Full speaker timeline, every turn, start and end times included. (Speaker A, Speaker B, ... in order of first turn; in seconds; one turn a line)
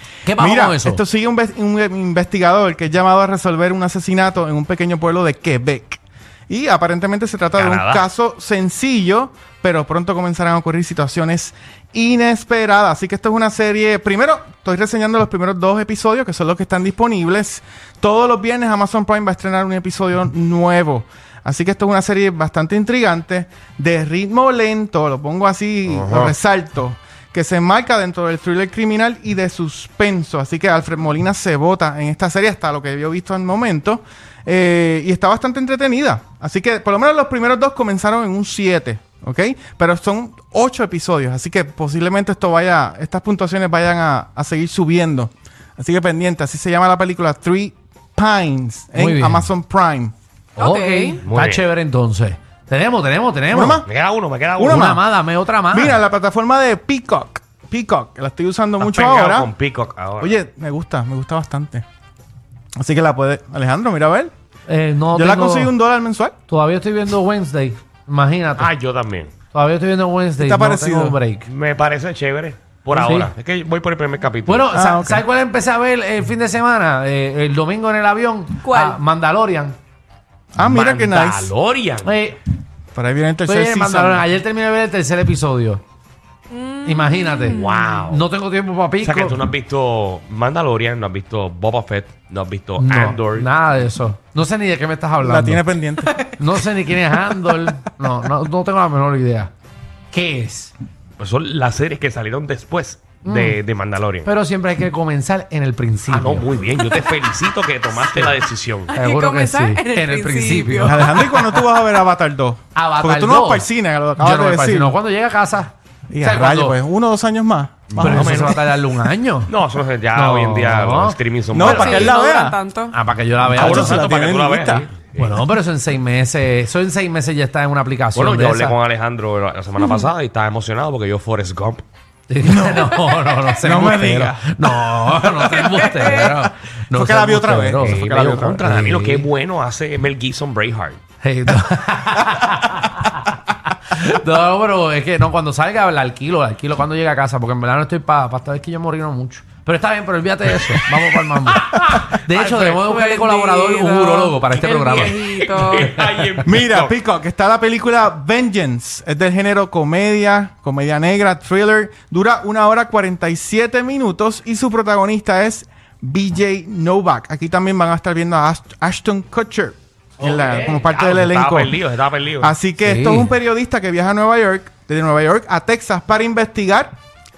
Speaker A: 0.2-1.0
Speaker B: 0.3-50.1
Speaker C: 7.5-8.1
Speaker C: 25.9-26.3
Speaker A: 48.9-49.5
Speaker D: 50.6-51.2
Speaker A: 50.6-53.8
Speaker C: 51.2-51.6
Speaker B: 53.5-53.9
Speaker C: 53.8-54.8
Speaker B: 54.6-55.0
Speaker A: 54.6-56.0
Speaker B: 55.7-59.5
Speaker C: 58.8-60.4
Speaker B: 60.2-61.8
Speaker B: 62.8-64.3
Speaker A: 64.7-65.7
Speaker B: 65.1-66.3
Speaker A: 66.5-68.7
Speaker C: 68.6-69.3
Speaker A: 69.5-71.5
Speaker B: 70.4-71.2
Speaker C: 71.5-74.7
Speaker A: 72.9-73.3
Speaker A: 74.5-79.8
Speaker B: 74.7-75.2
Speaker D: 78.6-79.0
Speaker B: 80.5-81.5
Speaker C: 80.6-82.1
Speaker A: 82.0-82.4
Speaker B: 82.9-84.2
Speaker A: 83.5-85.8
Speaker D: 86.5-88.0
Speaker A: 86.8-89.4
Speaker C: 87.5-88.2
Speaker C: 89.0-93.5
Speaker A: 92.8-95.6
Speaker B: 95.2-96.2
Speaker A: 96.3-99.5
Speaker A: 100.1-100.7
Speaker C: 101.2-104.3
Speaker A: 103.2-103.6
Speaker A: 104.2-106.6
Speaker C: 106.1-108.9
Speaker A: 108.1-108.4
Speaker D: 108.9-111.7
Speaker A: 108.9-111.1
Speaker B: 110.8-115.0
Speaker A: 112.7-116.8
Speaker B: 116.1-118.6
Speaker C: 117.9-118.6
Speaker A: 118.0-119.5
Speaker C: 119.5-122.1
Speaker A: 120.1-121.7
Speaker B: 121.5-122.6
Speaker D: 121.7-122.9
Speaker A: 122.9-124.0
Speaker B: 123.4-124.9
Speaker C: 123.5-125.4
Speaker A: 125.2-128.8
Speaker C: 128.1-131.8
Speaker D: 129.8-130.0
Speaker A: 132.3-139.3
Speaker B: 132.4-135.1
Speaker D: 135.6-136.0
Speaker B: 136.9-138.6
Speaker C: 137.8-141.0
Speaker A: 141.2-155.2
Speaker D: 152.3-155.9
Speaker C: 152.4-152.7
Speaker C: 154.5-156.9
Speaker A: 155.8-156.3
Speaker B: 156.4-171.8
Speaker A: 170.2-170.8
Speaker C: 170.8-172.5
Speaker B: 172.4-176.9
Speaker A: 172.8-173.3